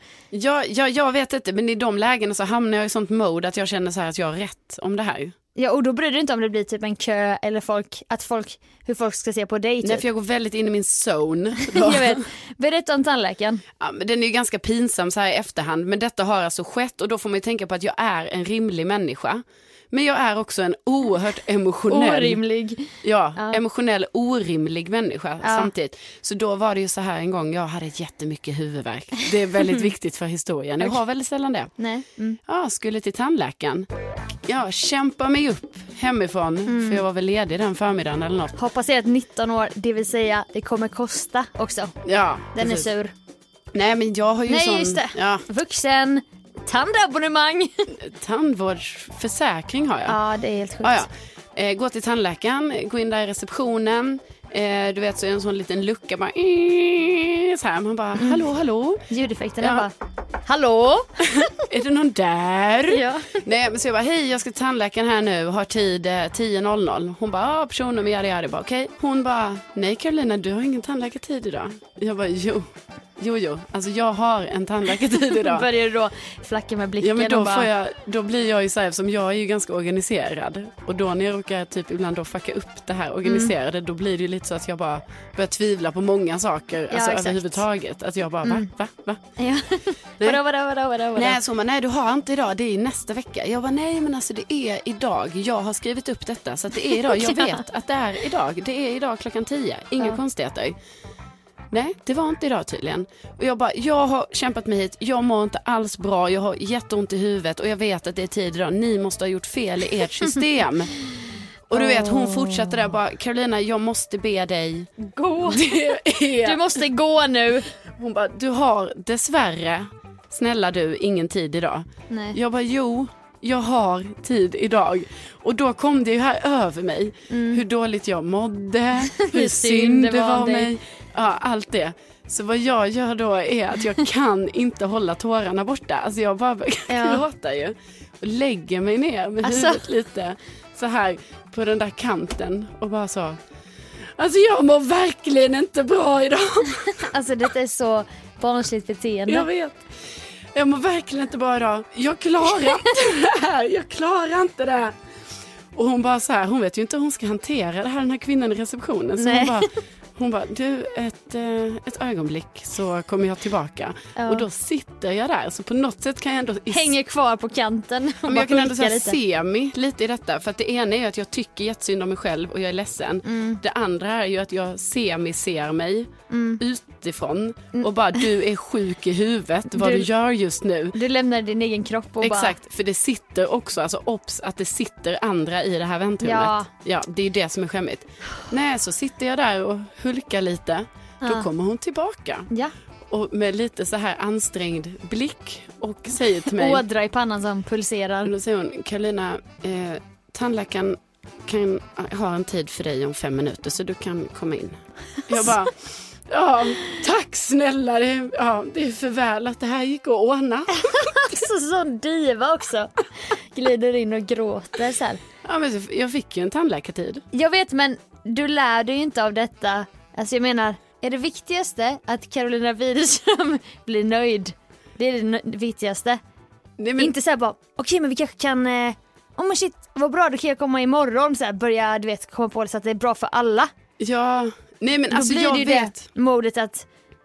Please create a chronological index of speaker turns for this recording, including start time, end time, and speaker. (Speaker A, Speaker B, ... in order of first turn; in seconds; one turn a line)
Speaker A: 0.3-5.3
Speaker B: 5.5-10.0
Speaker A: 9.8-12.2
Speaker B: 11.7-13.6
Speaker A: 13.8-22.4
Speaker B: 21.9-23.6
Speaker A: 23.0-31.7
Speaker B: 25.4-25.7
Speaker B: 31.8-32.4
Speaker A: 32.5-33.9
Speaker A: 34.5-38.5
Speaker B: 36.7-37.0
Speaker B: 38.5-41.9
Speaker A: 42.0-42.9
Speaker B: 42.5-43.1
Speaker A: 43.7-45.4
Speaker B: 44.5-47.9
Speaker A: 48.0-50.2
Speaker B: 50.1-51.1
Speaker A: 50.8-59.0
Speaker B: 58.2-58.4
Speaker B: 59.1-59.9
Speaker A: 59.6-59.9
Speaker B: 60.5-61.4
Speaker A: 61.2-72.7
Speaker B: 62.9-63.4
Speaker A: 73.2-75.7
Speaker B: 75.4-77.7
Speaker A: 77.0-89.2
Speaker B: 83.2-83.5
Speaker B: 86.9-87.6
Speaker B: 89.4-91.4
Speaker A: 91.2-100.7
Speaker B: 96.9-97.6
Speaker A: 101.7-110.9
Speaker A: 111.7-114.9
Speaker B: 111.7-112.9
Speaker B: 115.0-117.7
Speaker A: 115.4-116.8
Speaker A: 118.0-143.4
Speaker B: 122.1-122.4
Speaker B: 127.3-127.6
Speaker B: 129.1-130.7
Speaker B: 136.9-137.2
Speaker B: 139.4-139.8
Speaker A: 144.2-147.1
Speaker B: 147.0-149.4
Speaker A: 149.3-149.8
Speaker A: 150.5-154.9
Speaker A: 155.7-166.9
Speaker B: 159.2-159.6
Speaker B: 164.2-164.4
Speaker B: 166.7-169.2
Speaker A: 168.2-181.0
Speaker B: 173.2-173.6
Speaker B: 176.3-176.6
Speaker B: 179.7-180.1
Speaker B: 180.9-182.5
Speaker A: 182.2-192.5
Speaker B: 186.2-186.7
Speaker A: 193.1-196.8
Speaker B: 196.5-198.3
Speaker A: 198.2-205.7
Speaker A: 206.3-211.1
Speaker B: 210.8-212.9
Speaker B: 213.5-215.2
Speaker A: 215.4-217.2
Speaker B: 217.3-226.2
Speaker A: 226.8-227.1
Speaker B: 227.0-233.7
Speaker A: 234.0-236.0
Speaker B: 235.1-236.8